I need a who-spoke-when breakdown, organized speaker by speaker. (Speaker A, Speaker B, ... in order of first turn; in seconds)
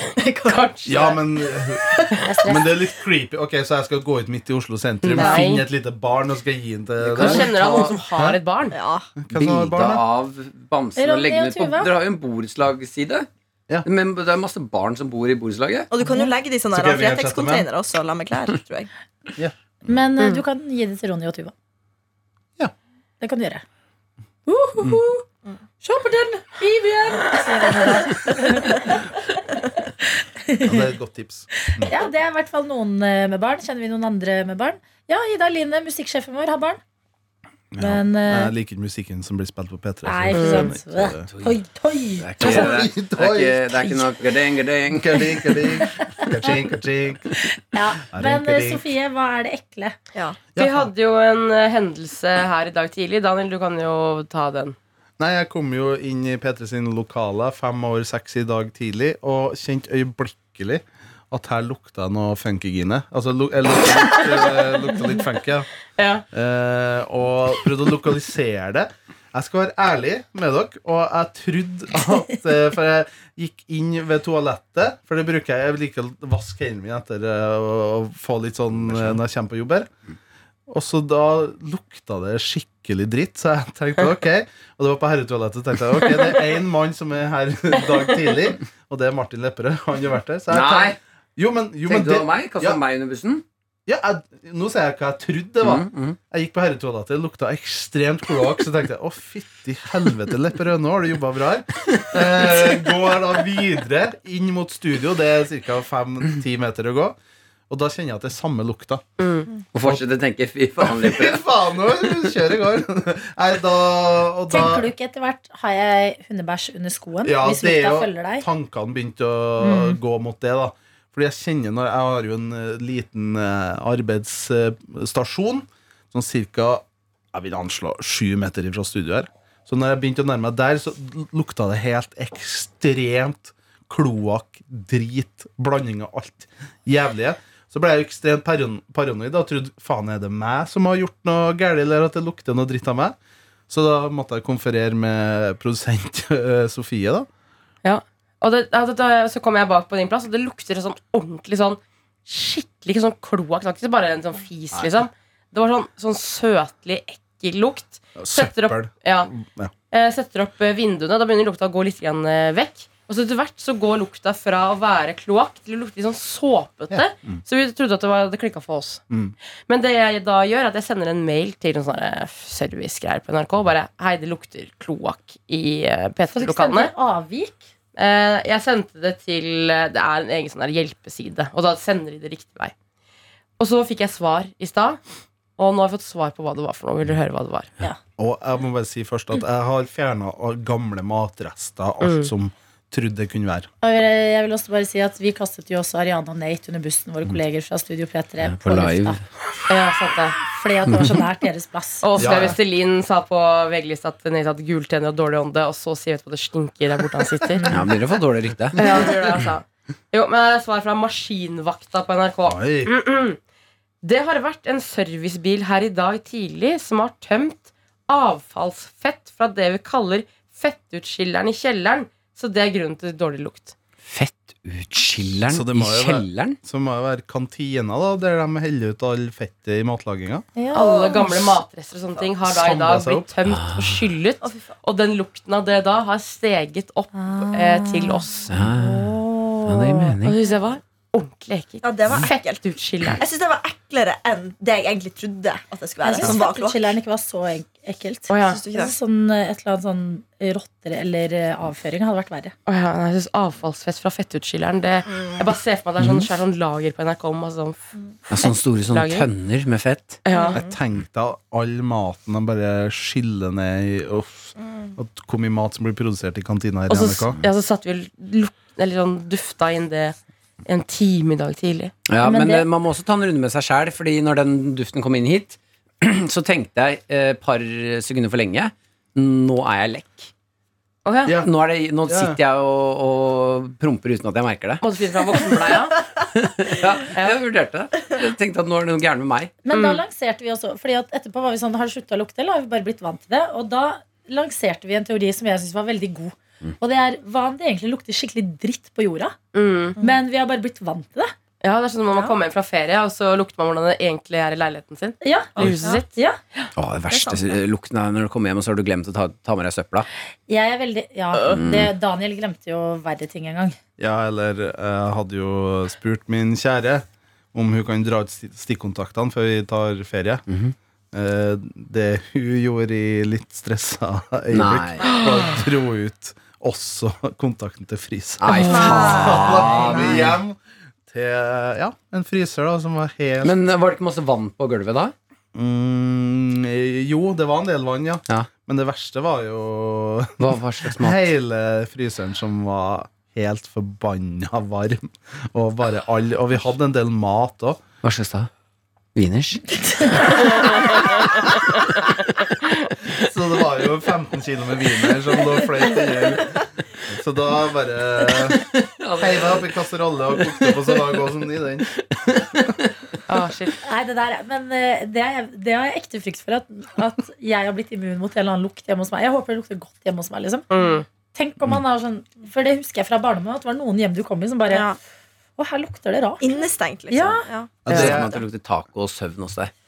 Speaker A: 0.1-1.2, 5.2-5.5, 8.7-9.1, 15.9-18.9, 230.7-231.5, 241.8-242.6, 243.2-246.9, 248.4-248.9, 255.1-255.5, 260.3-260.8, 305.6-306.0, 307.1-307.5, 328.5-330.2, 374.7-375.0, 376.4-378.2
Speaker B: 0.4-1.2, 5.0-5.6, 7.1-8.8, 40.3-40.7, 50.5-54.8, 66.0-66.2, 109.2-109.5, 147.8-159.3, 159.9-169.0, 169.7-176.9, 177.9-182.7, 183.6-185.0, 185.6-187.7, 192.0-192.3, 199.7-200.4, 202.0-207.6, 208.8-213.4, 214.0-223.7, 230.7-238.5, 240.2-243.2, 248.3-248.6, 252.7-257.8, 258.3-259.3, 260.2-260.6, 266.9-271.9, 281.0-281.4, 284.8-286.0, 287.1-287.4, 289.7-290.0, 299.5-300.0, 301.6-306.1, 363.3-363.8, 370.7-371.1
Speaker C: 0.8-8.4, 9.2-10.0, 16.7-17.7, 30.6-31.9, 37.7-41.3, 42.4-44.1, 44.9-47.3, 48.1-48.9, 50.5-50.9, 55.2-65.7, 66.3-79.9, 80.7-92.8, 93.9-107.2, 107.7-109.0, 110.8-114.9, 117.2-143.2, 143.7-147.3, 158.2-159.7, 166.9-167.4, 169.1-169.3, 188.2-193.7, 202.2-202.6, 212.5-212.9, 225.5-230.4, 232.4-233.3, 260.5-267.4, 282.1-282.4, 314.0-320.4, 321.1-333.5, 335.5-347.8, 353.2-358.6, 359.2-361.9, 377.9-378.4
Speaker D: 2.2-2.8, 10.9-11.9, 16.0-16.3, 19.9-21.5, 23.2-23.6, 24.4-25.2, 25.8-29.1, 30.2-30.9, 31.7-36.8, 37.8-38.5, 40.0-42.8, 45.8-46.5, 47.4-49.9, 114.5-118.5, 119.6-120.0, 176.3-177.6, 193.8-199.2, 200.5-202.5, 230.6-231.2, 237.1-240.2, 246.0-252.5, 272.2-272.7, 289.6-299.4, 300.0-301.3, 305.2-306.4, 310.5-313.8, 328.5-329.0, 363.8-370.7, 371.3-374.9, 375.6-377.4
Speaker E: 7.0-8.0, 9.3-13.3, 13.8-15.9, 41.2-41.6, 42.2-45.2, 78.9-79.1, 90.5-91.0, 91.9-93.4, 95.6-96.2, 109.7-111.4, 198.4-199.2, 200.9-201.2, 207.7-209.0, 224.1-226.6, 233.5-234.0, 238.4-240.4, 256.0-256.3, 258.3-260.2, 272.1-280.3, 281.4-284.8, 286.2-289.6, 306.8-310.1, 311.4-311.9, 320.5-320.7, 324.5-325.2, 328.4-330.3, 333.4-335.1, 340.4-341.2, 348.0-348.5, 349.1-350.2, 358.6-359.7, 360.4-361.2, 361.9-363.1, 377.9-379.7